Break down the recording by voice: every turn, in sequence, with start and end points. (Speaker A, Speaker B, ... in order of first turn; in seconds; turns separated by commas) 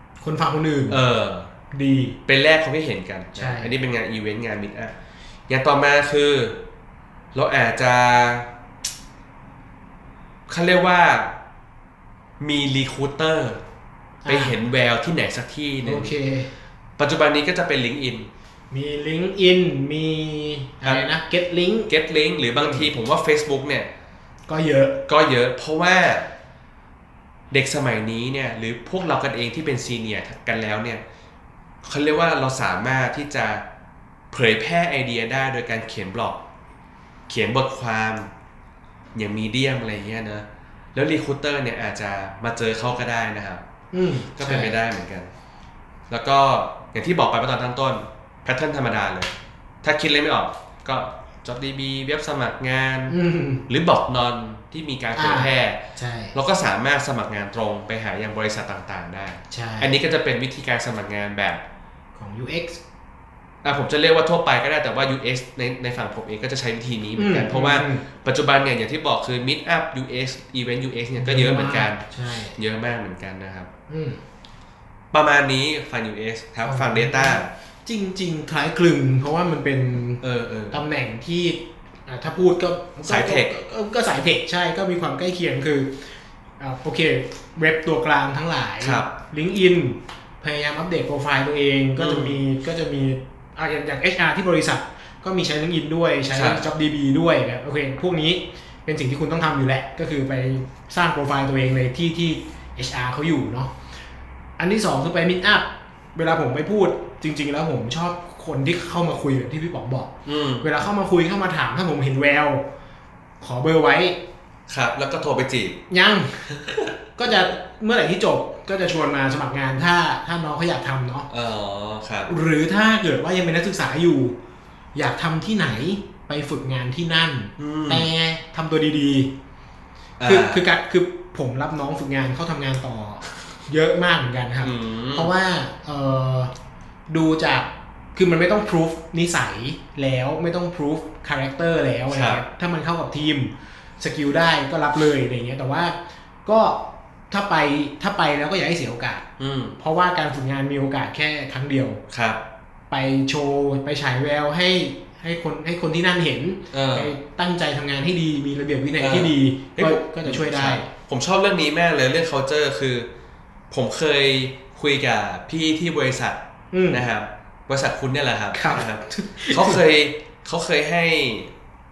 Speaker A: 0.2-1.0, Speaker B: 0.9-1.5, Speaker A: 1.7-2.2, Speaker B: 2.3-4.9, Speaker A: 3.4-3.8, Speaker B: 5.5-6.6, Speaker B: 7.3-8.5, Speaker B: 10.5-11.4, Speaker B: 12.4-13.6, Speaker A: 14.2-14.6, Speaker B: 14.3-16.1, Speaker A: 15.8-16.5, Speaker B: 17.0-18.3, Speaker A: 18.7-21.9, Speaker B: 21.9-23.9, Speaker A: 22.6-22.9, Speaker A: 24.5-25.0, Speaker B: 25.1-26.3, Speaker B: 27.5-31.0, Speaker B: 31.8-33.6, Speaker B: 34.3-36.4, Speaker B: 37.3-38.3, Speaker B: 39.1-43.6, Speaker A: 43.9-44.8, Speaker B: 44.4-45.3, Speaker B: 46.1-49.3, Speaker B: 49.8-53.2, Speaker A: 53.1-53.6, Speaker B: 53.7-55.8, Speaker A: 55.1-56.4, Speaker B: 56.3-61.6, Speaker A: 59.5-60.0, Speaker A: 62.2-62.8, Speaker B: 63.6-72.0, Speaker A: 67.2-68.0, Speaker A: 71.2-72.6, Speaker B: 72.6-73.7, Speaker A: 73.9-74.2, Speaker B: 75.1-77.5, Speaker A: 76.6-86.0, Speaker B: 80.2-80.8, Speaker B: 83.0-83.5, Speaker A: 86.6-103.7, Speaker B: 88.8-89.1, Speaker B: 92.0-92.4, Speaker B: 96.3-96.7, Speaker A: 104.6-112.7, Speaker B: 110.3-110.8, Speaker A: 113.4-114.2, Speaker B: 114.7-115.8, Speaker A: 115.9-121.3, Speaker B: 121.3-122.3, Speaker A: 122.3-124.4, Speaker A: 125.0-129.3, Speaker B: 127.6-128.1, Speaker B: 130.2-130.6, Speaker A: 130.2-136.5, Speaker B: 134.6-135.3, Speaker A: 137.1-149.2, Speaker B: 142.1-142.4, Speaker B: 149.4-149.8, Speaker A: 149.8-152.0, Speaker B: 152.1-152.4, Speaker A: 152.9-160.9, Speaker B: 156.7-157.1, Speaker B: 159.0-163.1, Speaker B: 163.7-166.4, Speaker A: 166.7-167.1, Speaker B: 166.9-171.5, Speaker A: 168.5-169.8